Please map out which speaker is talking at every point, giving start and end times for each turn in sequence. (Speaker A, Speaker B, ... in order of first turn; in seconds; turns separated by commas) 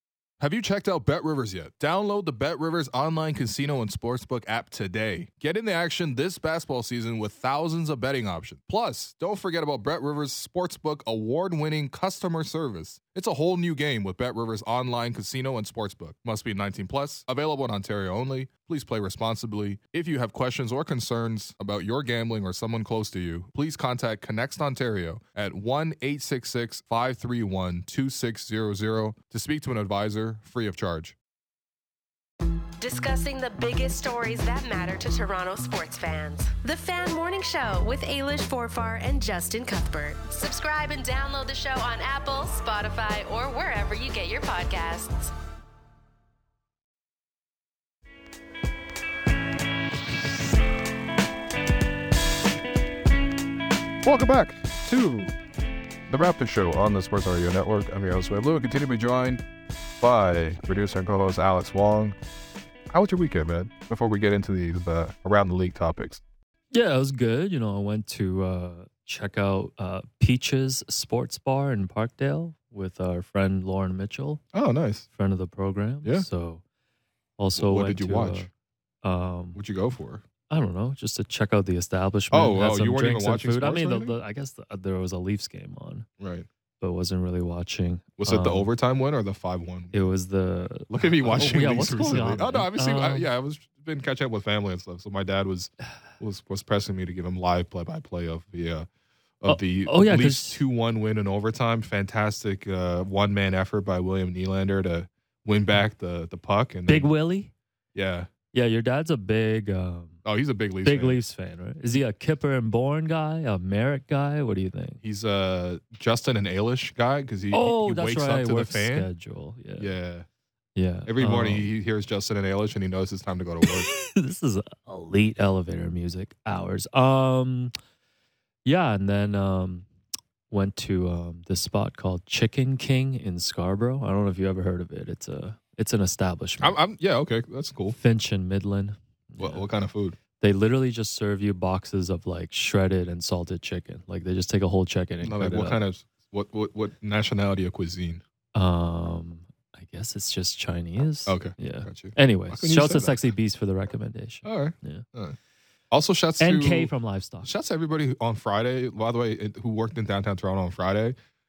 Speaker A: 0.4-31.2, Speaker B: 32.8-45.3, Speaker A: 54.0-55.3, Speaker A: 56.1-59.4, Speaker A: 60.0-62.2, Speaker A: 62.9-66.2, Speaker C: 66.7-74.4, Speaker A: 74.5-75.1, Speaker C: 75.1-76.6, Speaker C: 77.4-78.5, Speaker A: 77.6-78.5, Speaker C: 79.0-79.6, Speaker A: 79.5-80.2, Speaker C: 80.5-86.1, Speaker A: 82.3-84.1, Speaker A: 86.2-86.5, Speaker C: 86.8-88.7, Speaker A: 88.2-90.1, Speaker C: 89.9-93.3, Speaker A: 90.9-98.9, Speaker A: 99.4-107.1, Speaker C: 99.5-100.6, Speaker C: 106.9-107.5, Speaker A: 108.0-108.3, Speaker C: 108.5-110.2, Speaker A: 110.2-111.2, Speaker C: 110.8-115.0, Speaker A: 115.0-119.1, Speaker C: 117.5-119.9, Speaker A: 119.8-120.3, Speaker C: 120.8-121.7, Speaker A: 121.1-123.9, Speaker C: 123.7-127.7, Speaker C: 128.7-129.9, Speaker C: 130.5-136.8, Speaker A: 136.6-138.0, Speaker C: 137.9-139.6, Speaker A: 139.4-140.2, Speaker C: 140.4-145.8, Speaker A: 145.2-148.2, Speaker C: 148.5-155.1, Speaker A: 151.3-153.2, Speaker A: 154.4-155.4, Speaker A: 155.9-156.9, Speaker C: 156.4-157.5, Speaker A: 157.4-161.2